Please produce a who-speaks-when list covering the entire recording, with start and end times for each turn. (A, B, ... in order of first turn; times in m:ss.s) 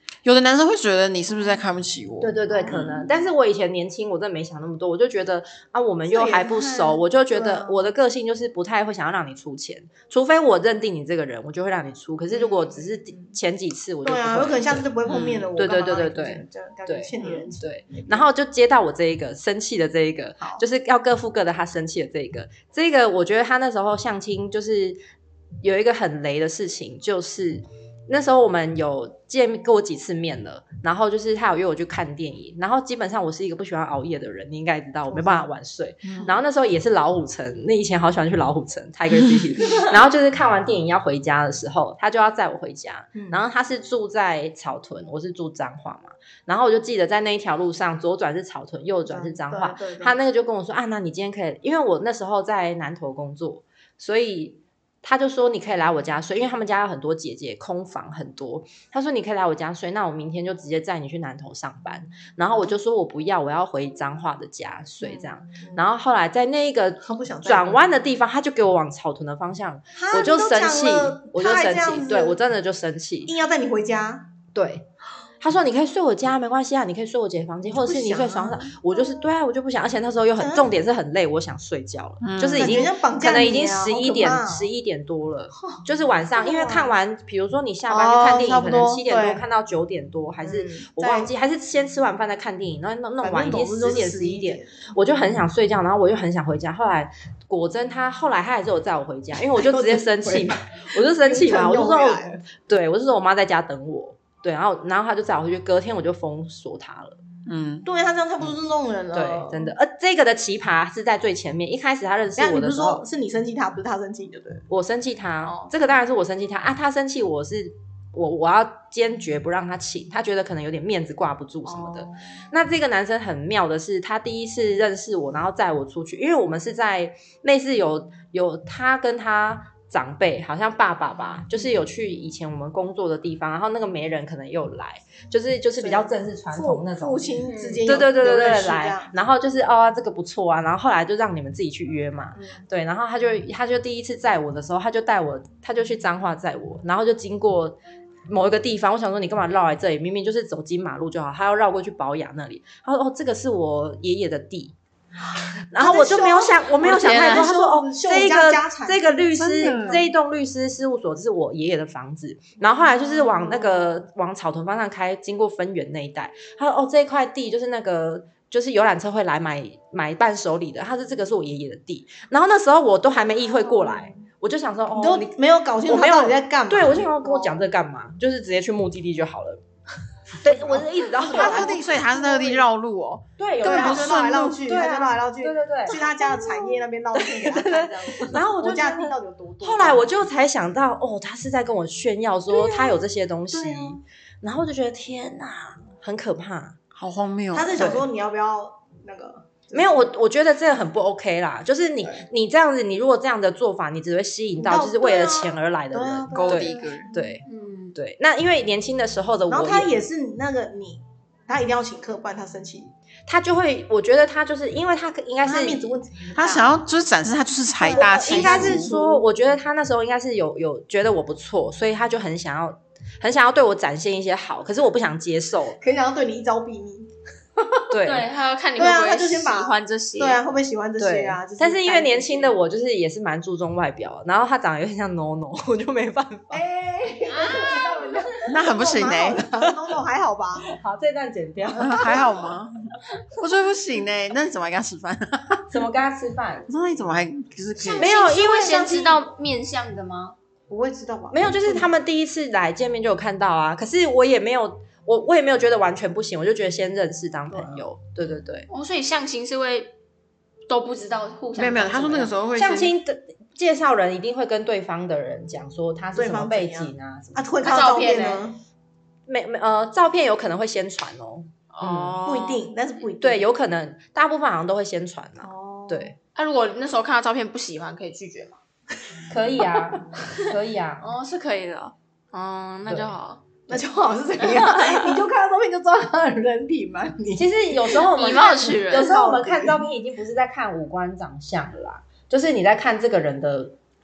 0:00.2-0:03.1 A
0:02.2-0:14.9 B
0:06.1-0:07.9 C
0:12.3-0:13.4 C
0:14.0-0:18.3 C
0:15.1-0:15.5 A
0:15.6-0:25.0 B
0:25.6-1:13.3 B
0:35.1-0:35.5 C
0:36.0-0:36.3 A
0:43.2-0:43.4 C
0:49.1-0:50.2 C
1:05.0-1:05.8 C
1:07.0-1:07.8 C
1:10.0-1:12.4 C
1:13.3-1:14.3 C
1:14.5-1:14.9 B
1:15.4-1:47.2 B
1:17.7-1:19.2 C
1:20.4-1:20.7 C
1:22.2-1:22.8 A
1:22.6-1:24.7 C
1:26.4-1:26.9 C
1:27.9-1:29.4 C
1:30.4-1:31.3 C
1:33.2-1:34.9 C
1:39.6-1:42.4 C
1:47.5-1:47.9 A
1:47.8-1:49.7 C
1:49.1-1:53.0 B
1:52.4-1:54.6 C
1:54.7-2:17.3 B
1:55.5-1:55.8 C
2:01.6-2:02.4 C
2:15.8-2:19.2 C
2:17.4-2:18.0 D
2:17.9-2:34.7 B
2:22.4-2:22.6 C
2:35.7-2:55.3 B
2:35.8-2:40.0 C
2:36.8-2:37.5 D
2:39.4-2:40.0 A
2:42.8-2:43.9 C
2:53.1-2:54.2 C
2:54.9-2:57.7 C
2:55.9-2:59.6 B
3:00.4-3:02.0 B
3:00.5-3:02.6 C
3:01.2-3:04.7 A
3:03.4-3:16.8 B
3:03.6-3:10.1 C
3:12.5-3:14.0 C
3:16.9-3:17.9 A
3:17.5-3:20.1 C
3:17.8-3:18.1 B
3:19.7-3:27.4 B
3:24.6-3:27.3 C
3:26.3-3:27.1 A
3:27.5-3:28.0 D
3:28.0-3:29.9 B
3:29.5-3:32.9 C
3:33.3-3:36.0 B
3:35.4-3:36.7 C
3:36.4-3:38.9 A
3:37.8-3:39.2 C
3:37.9-3:45.8 B
3:45.8-3:47.8 C
3:47.9-3:48.3 B
3:48.0-3:50.4 D
3:48.8-3:52.6 C
3:51.0-3:56.6 B
3:56.5-4:00.7 C
3:57.3-3:58.1 D
3:58.5-3:59.4 A
4:00.7-4:02.2 B
4:01.8-4:02.8 A
4:01.8-4:02.4 C
4:03.3-4:05.7 A
4:05.7-4:06.7 B
4:06.7-4:08.2 A
4:08.0-4:10.4 D
4:08.0-4:09.2 B
4:10.7-4:11.9 C
4:11.3-4:18.7 B
4:17.5-4:17.8 C
4:18.7-4:19.9 D
4:20.7-4:22.3 D
4:21.6-4:23.0 A
4:22.6-4:27.6 B
4:26.2-4:28.6 C
4:27.6-4:28.5 D
4:29.3-4:32.2 B
4:31.7-4:32.7 D
4:32.2-4:33.5 C
4:33.2-4:36.2 B
4:35.4-4:36.1 C
4:36.4-4:38.6 D
4:39.3-4:41.0 B
4:41.0-4:43.4 D
4:43.7-4:48.0 C
4:44.4-4:45.2 D
4:47.4-4:53.8 B
4:48.1-4:49.2 D
4:48.9-4:49.8 C